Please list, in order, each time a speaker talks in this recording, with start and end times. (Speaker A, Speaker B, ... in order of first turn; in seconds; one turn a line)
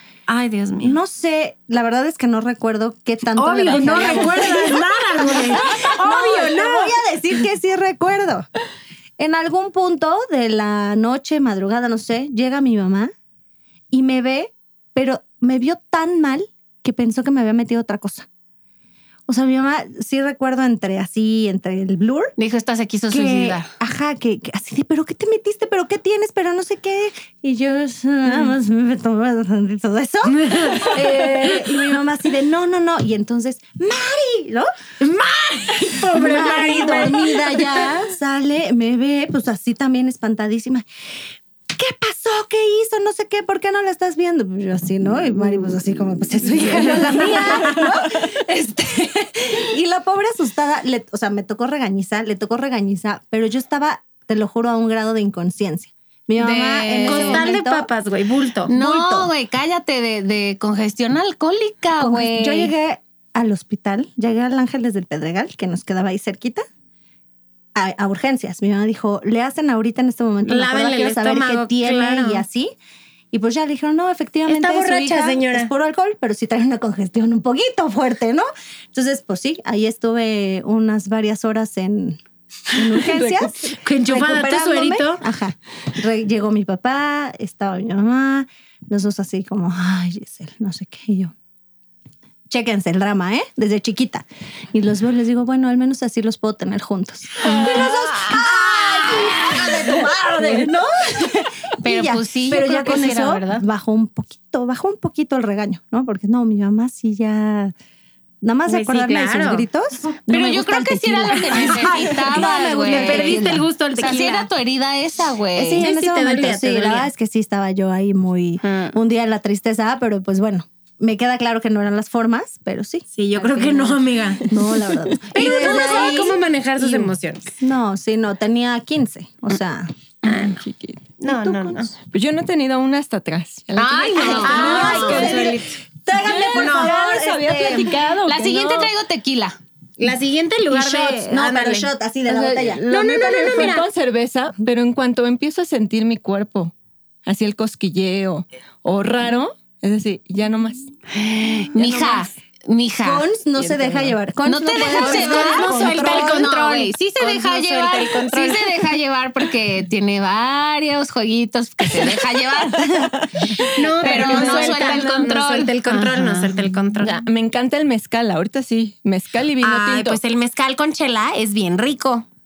Speaker A: 0.3-1.0
Speaker B: 0.8-8.5
Speaker A: 3.4-7.0
Speaker B: 9.2-13.1
Speaker B: 13.9-18.3
Speaker B: 19.3-22.3
Speaker C: 22.4-23.7
Speaker B: 23.1-34.7
Speaker A: 30.2-31.8
Speaker A: 35.0-38.0
Speaker B: 36.1-40.9
Speaker B: 41.7-57.9
Speaker A: 46.7-48.4
Speaker C: 56.4-57.5
Speaker A: 57.0-58.7
Speaker C: 58.7-62.7
Speaker B: 58.7-59.3
Speaker B: 62.0-66.6
Speaker B: 67.8-72.8
Speaker A: 70.5-72.4
Speaker B: 73.3-91.3
Speaker A: 74.5-75.7
Speaker D: 82.9-83.6
Speaker A: 83.8-85.2
Speaker B: 92.5-107.7
Speaker C: 97.4-100.0
Speaker A: 99.0-99.5
Speaker C: 101.8-103.6
Speaker B: 108.4-113.7
Speaker A: 108.7-109.7
Speaker C: 110.3-115.9
Speaker A: 111.6-112.3
Speaker A: 112.9-114.5
Speaker B: 115.6-129.9
Speaker A: 115.8-117.1
Speaker C: 118.6-119.0
Speaker A: 123.2-124.6
Speaker C: 125.3-126.3
Speaker A: 125.4-127.4
Speaker A: 130.2-130.6
Speaker D: 130.2-131.1
Speaker A: 131.2-131.9
Speaker B: 131.2-131.9
Speaker D: 132.1-135.6
Speaker C: 133.8-135.6
Speaker A: 134.2-135.6
Speaker B: 134.2-138.1
Speaker D: 136.2-138.9
Speaker A: 136.2-136.9
Speaker C: 138.2-139.6
Speaker A: 140.0-141.9
Speaker B: 140.7-143.8
Speaker D: 142.3-146.7
Speaker A: 142.9-143.9
Speaker D: 147.3-152.3
Speaker C: 151.7-153.3
Speaker B: 153.0-156.5
Speaker D: 153.6-154.2
Speaker C: 154.4-163.1
Speaker A: 154.9-158.7
Speaker D: 162.8-165.4
Speaker A: 163.6-167.2
Speaker C: 164.0-166.5
Speaker D: 167.0-170.2
Speaker A: 169.6-172.2